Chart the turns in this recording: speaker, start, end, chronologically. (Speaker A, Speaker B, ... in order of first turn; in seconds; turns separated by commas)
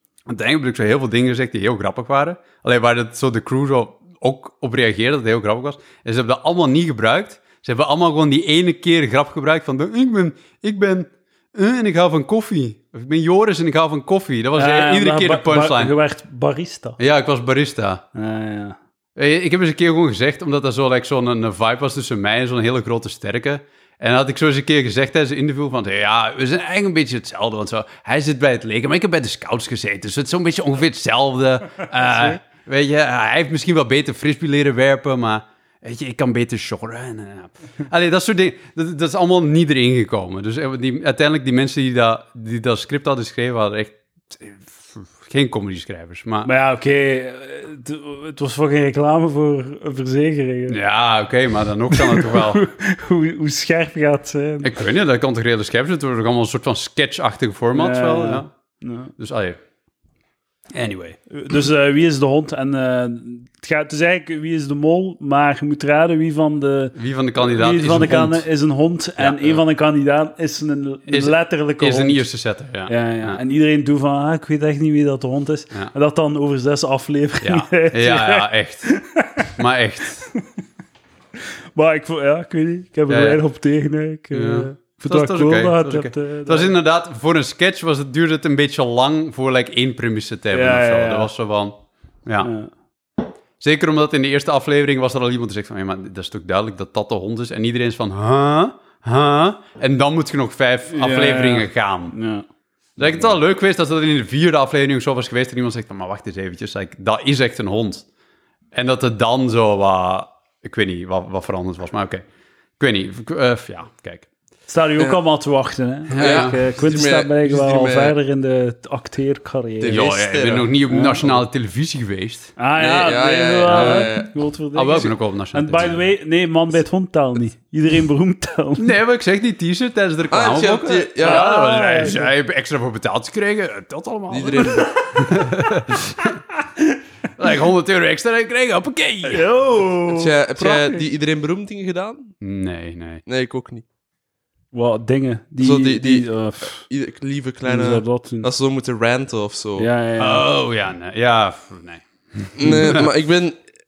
Speaker A: 0.3-15.9, Speaker B: 14.6-17.0, Speaker A: 17.0-18.0, Speaker B: 18.1-18.8, Speaker A: 19.1-46.5, Speaker B: 46.4-50.8, Speaker A: 50.7-52.6, Speaker B: 51.9-54.7, Speaker A: 54.6-58.5, Speaker B: 57.7-59.1, Speaker A: 59.2-59.6, Speaker A: 60.7-61.2, Speaker B: 61.3-72.2, Speaker A: 67.0-68.5, Speaker A: 69.2-69.6, Speaker A: 71.1-73.4, Speaker B: 72.9-79.5, Speaker A: 77.4-78.9, Speaker A: 79.5-80.3, Speaker B: 81.8-86.7, Speaker A: 83.1-83.4, Speaker A: 84.3-92.5, Speaker B: 90.5-91.3, Speaker B: 92.4-92.7, Speaker A: 93.6-102.2, Speaker B: 100.9-102.4, Speaker A: 103.0-108.0, Speaker A: 108.7-112.2, Speaker A: 112.8-114.2, Speaker B: 114.7-120.0, Speaker A: 116.1-116.6, Speaker C: 116.2-118.1, Speaker C: 119.8-120.7, Speaker A: 119.8-122.5, Speaker B: 120.9-121.3, Speaker B: 122.6-128.9, Speaker C: 122.8-124.3, Speaker A: 123.7-124.1, Speaker A: 124.7-126.1, Speaker A: 128.8-136.4, Speaker C: 130.3-131.4, Speaker B: 131.2-132.3, Speaker C: 134.3-134.9, Speaker A: 137.4-139.4, Speaker B: 139.3-141.0, Speaker C: 140.1-142.3, Speaker A: 142.4-143.2, Speaker C: 143.2-143.8, Speaker B: 144.7-146.8, Speaker C: 145.6-149.9, Speaker B: 147.7-148.5, Speaker B: 149.8-150.5, Speaker A: 150.2-153.1, Speaker C: 152.6-153.6